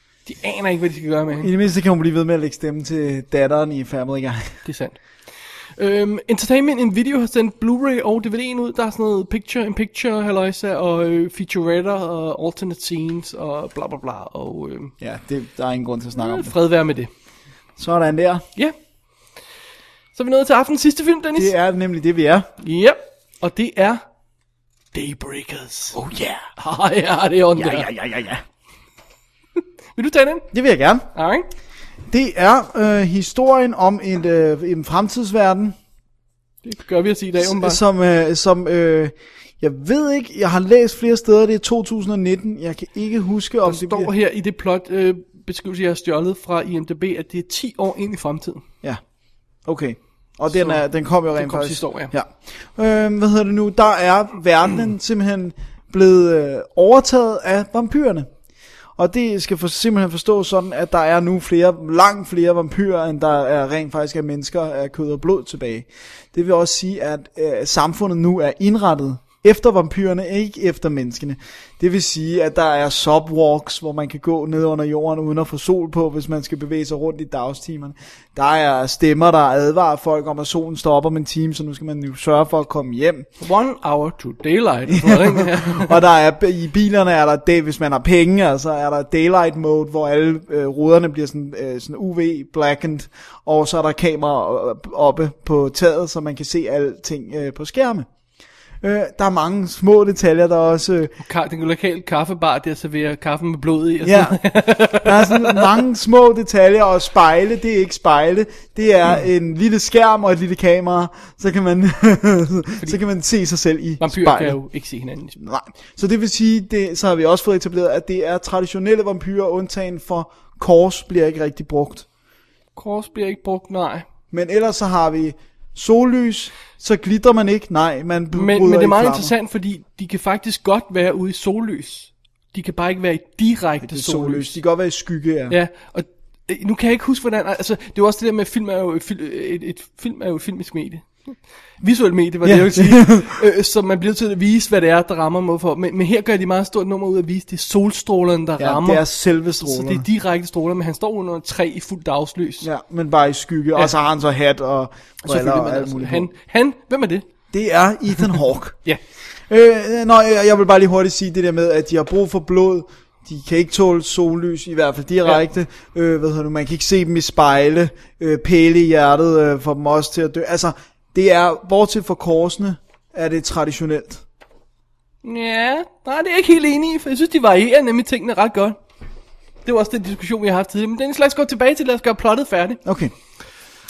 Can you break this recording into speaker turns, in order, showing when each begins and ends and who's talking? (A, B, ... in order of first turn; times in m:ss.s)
0:00.2-0:01.5 A
0:01.3-0:04.6 B
0:04.6-0:05.0 A
0:05.8-0:14.9 A
0:15.0-0:16.5 B
0:16.2-0:17.1 A
0:17.8-0:18.4 B
0:20.1-0:21.5 A
0:21.4-0:22.5 B
0:22.6-0:24.0 A
0:24.9-0:26.0 A
0:25.9-0:26.4 B
0:26.6-0:27.9 A
0:27.5-0:28.4 B
0:30.0-0:30.5 A
0:30.5-0:31.1 B
0:31.1-0:31.5 A
0:32.1-0:35.8 B
0:36.6-0:37.8 A
0:37.4-0:44.1 B
0:43.6-0:48.6 A
0:49.6-0:58.3 B
0:50.5-0:50.8 A
0:51.3-0:52.1 A
0:59.0-1:23.3 B
1:23.4-1:26.0 A
1:24.9-1:38.1 B
1:38.8-1:41.1 B
1:41.2-1:45.7 A
1:44.0-1:54.6 B
1:54.0-1:55.4 A
1:55.4-2:02.0 B
2:02.8-2:04.0 A
2:04.3-2:09.3 B
2:08.3-2:14.5 A
2:13.8-2:15.6 B
2:15.5-2:29.0 A
2:22.4-2:23.4 B
2:28.6-2:30.0 B
2:29.6-2:32.7 A
2:32.6-2:36.3 B
2:35.2-2:37.2 A
2:37.5-2:38.8 B
2:39.5-2:54.2 B
2:55.2-2:58.8 A
2:59.6-3:02.8 A
3:02.8-3:03.1 B